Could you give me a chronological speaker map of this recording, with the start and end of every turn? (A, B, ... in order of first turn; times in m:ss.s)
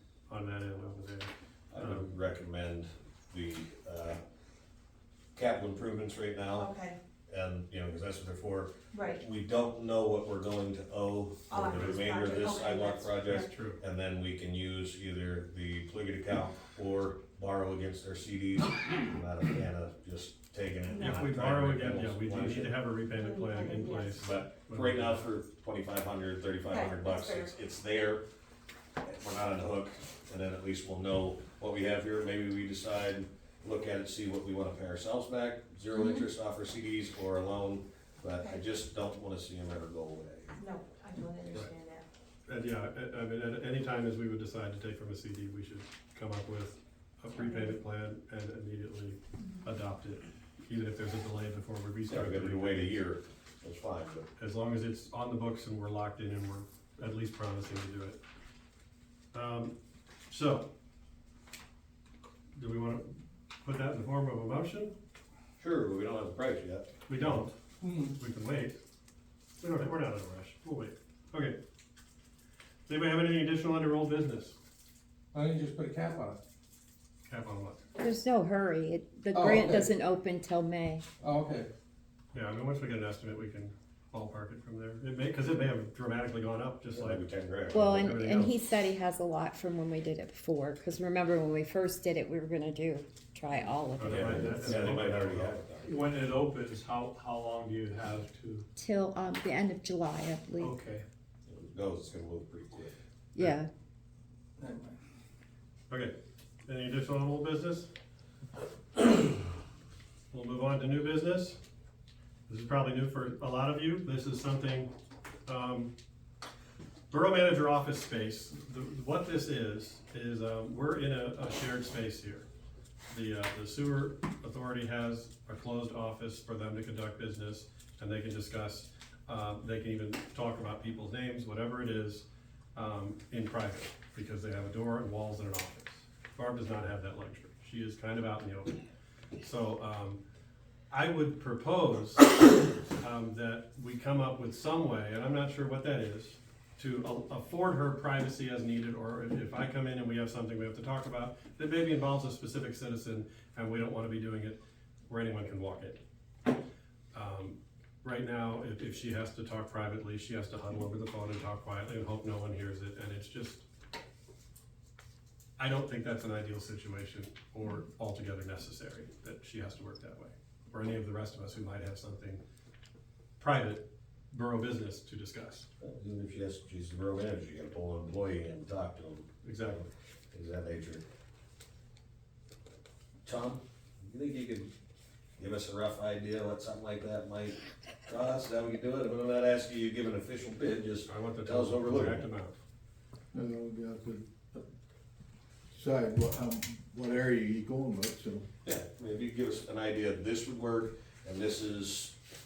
0:00.3-0:02.1 A
0:01.7-0:04.2 B
0:05.3-0:06.7 B
0:06.5-0:07.0 C
0:07.3-0:22.8 B
0:08.9-0:09.2 C
0:11.5-0:13.5 C
0:13.4-0:13.8 A
0:20.9-0:21.3 C
0:21.0-0:25.2 A
0:23.1-0:24.3 C
0:24.2-0:28.2 B
0:26.7-0:27.6 C
0:29.0-0:40.6 B
0:38.4-0:38.6 C
0:40.6-0:42.0 C
0:42.4-0:52.9 A
0:47.4-0:47.8 C
0:49.4-0:49.7 C
0:52.1-0:54.3 B
0:54.4-0:58.2 A
0:59.3-0:59.7 A
1:00.3-1:00.7 A
1:02.5-1:05.0 A
1:05.6-1:06.9 B
1:07.1-1:07.5 A
1:07.8-1:08.2 D
1:08.2-1:08.8 A
1:09.6-1:11.6 A
1:12.9-1:14.6 A
1:15.3-1:16.4 D
1:17.3-1:17.8 A
1:18.0-1:21.0 E
1:19.3-1:19.9 D
1:21.2-1:21.7 D
1:22.3-1:27.2 A
1:26.9-1:28.2 B
1:27.7-1:34.9 E
1:28.0-1:28.5 A
1:34.0-1:35.5 A
1:34.0-1:36.0 B
1:35.8-1:38.7 F
1:38.8-1:40.7 E
1:40.6-1:41.0 F
1:41.5-1:42.9 B
1:43.3-1:43.7 E
1:44.6-1:45.0 D
1:45.9-1:47.9 A
1:50.3-1:51.6 A
1:52.5-1:54.9 A
1:55.5-1:55.9 A
1:57.1-2:02.5 A
2:03.1-2:18.8 A
2:19.4-2:20.2 A
2:20.9-2:22.3 A
2:23.0-2:36.0 A
2:37.1-2:43.6 A
2:45.6-2:52.4 A
2:53.4-2:55.7 A
2:55.8-3:01.0 B
2:59.4-2:59.8 A
3:03.2-3:04.7 B
3:05.4-3:12.3 B
3:11.1-3:12.6 A
3:13.3-3:14.7 G
3:15.7-3:18.5 G
3:18.6-3:22.1 B